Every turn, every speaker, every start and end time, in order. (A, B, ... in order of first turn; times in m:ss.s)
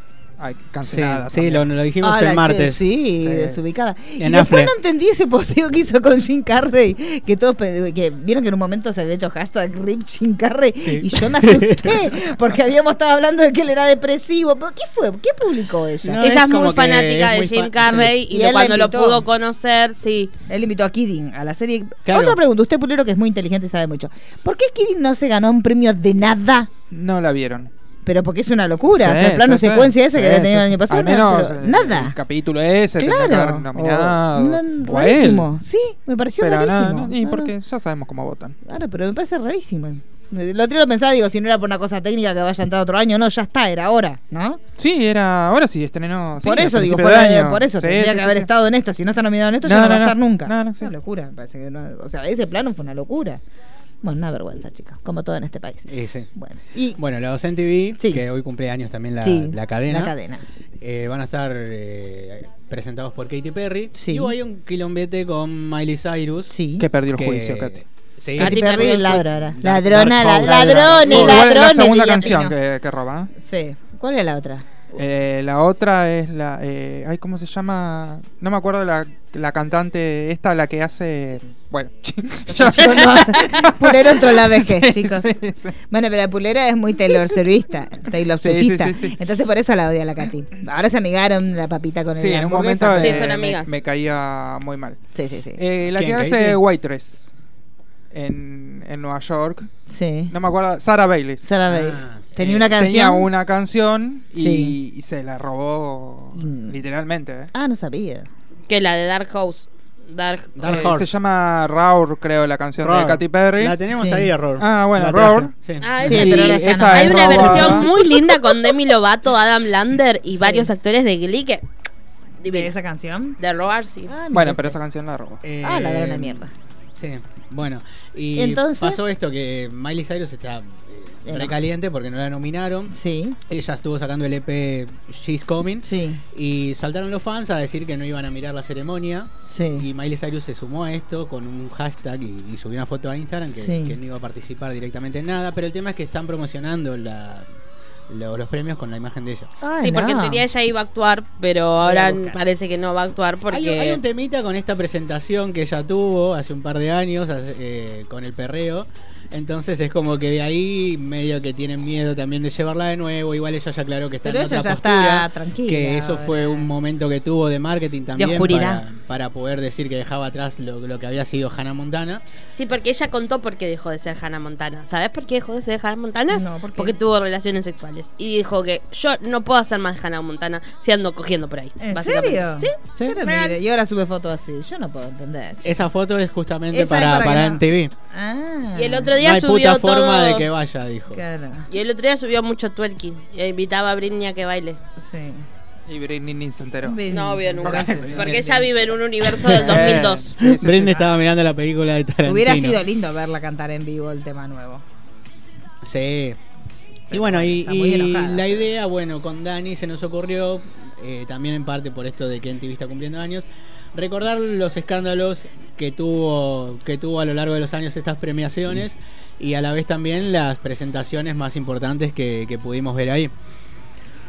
0:00.4-0:01.7 A
0:00.8-0:03.6 B
0:02.0-0:16.3 C
0:04.2-0:04.7 B
0:10.8-0:12.1 B
0:16.0-0:18.1 B
0:16.2-0:20.3 D
0:17.8-0:19.2 C
0:20.5-0:26.8 C
0:22.1-0:22.4 B
0:26.9-0:27.7 A
0:28.0-0:32.2 C
0:29.0-0:35.5 A
0:33.0-0:37.5 C
0:36.4-0:38.6 A
0:38.6-0:44.6 C
0:44.8-0:48.5 A
0:46.4-0:53.4 C
0:49.6-0:50.9 A
0:54.0-0:57.0 C
0:55.9-0:56.3 B
0:57.0-1:00.1 B
0:59.2-1:00.4 C
1:00.8-1:06.5 B
1:04.0-1:04.3 C
1:06.5-1:06.9 C
1:06.8-1:07.8 A
1:07.1-1:11.6 B
1:08.4-1:12.6 C
1:08.4-1:09.3 D
1:10.9-1:13.3 A
1:13.4-1:14.6 C
1:15.0-1:25.8 A
1:22.5-1:25.3 C
1:25.9-1:33.3 C
1:28.4-1:29.2 A
1:32.2-1:35.0 A
1:32.9-1:33.7 D
1:35.1-1:35.6 C
1:35.6-1:37.3 A
1:35.9-1:36.6 B
1:38.1-1:39.7 A
1:39.9-1:40.3 C
1:40.3-1:41.4 A
1:41.4-1:43.3 C
1:41.7-1:42.3 B
1:42.4-1:47.5 A
1:44.4-1:44.8 C
1:46.4-1:46.8 C
1:47.5-1:48.3 C
1:48.7-1:50.9 D
1:50.6-1:51.1 B
1:50.6-1:53.8 A
1:52.8-1:56.2 B
1:53.9-1:54.3 C
1:54.6-1:57.9 A
1:55.8-2:01.6 D
1:56.1-1:58.4 C
2:00.4-2:00.7 C
2:02.4-2:02.7 D
2:02.5-2:03.4 C
2:03.4-2:04.1 D
2:04.1-2:04.8 C
2:04.3-2:05.4 A
2:05.4-2:12.9 B
2:05.6-2:06.5 C
2:08.4-2:09.0 C
2:11.3-2:11.6 C
2:12.9-2:13.4 C
2:13.5-2:27.5 B
2:15.8-2:16.2 C
2:19.5-2:19.9 C
2:23.6-2:24.0 C
2:28.1-2:29.5 B
2:29.6-2:30.4 C
2:29.8-2:34.0 D
2:31.9-2:32.3 B
2:33.5-2:52.2 B
2:44.2-2:46.7 C
2:48.2-2:48.8 D
2:52.5-3:03.6 D
2:56.3-2:57.0 C
3:01.8-3:05.7 C
3:05.6-3:07.9 B
3:06.7-3:07.6 C
3:08.1-3:09.1 C
3:08.8-3:10.5 D
3:09.2-3:11.2 B
3:11.1-3:11.7 C
3:11.7-3:14.8 D
3:15.0-3:15.4 C
3:15.9-3:17.0 A
3:16.8-3:18.3 C
3:17.1-3:20.3 D
3:17.6-3:18.8 A
3:19.4-3:21.1 A
3:20.4-3:22.8 B
3:22.2-3:24.8 C
3:25.8-3:26.4 B
3:27.1-3:28.7 C
3:27.1-3:43.3 B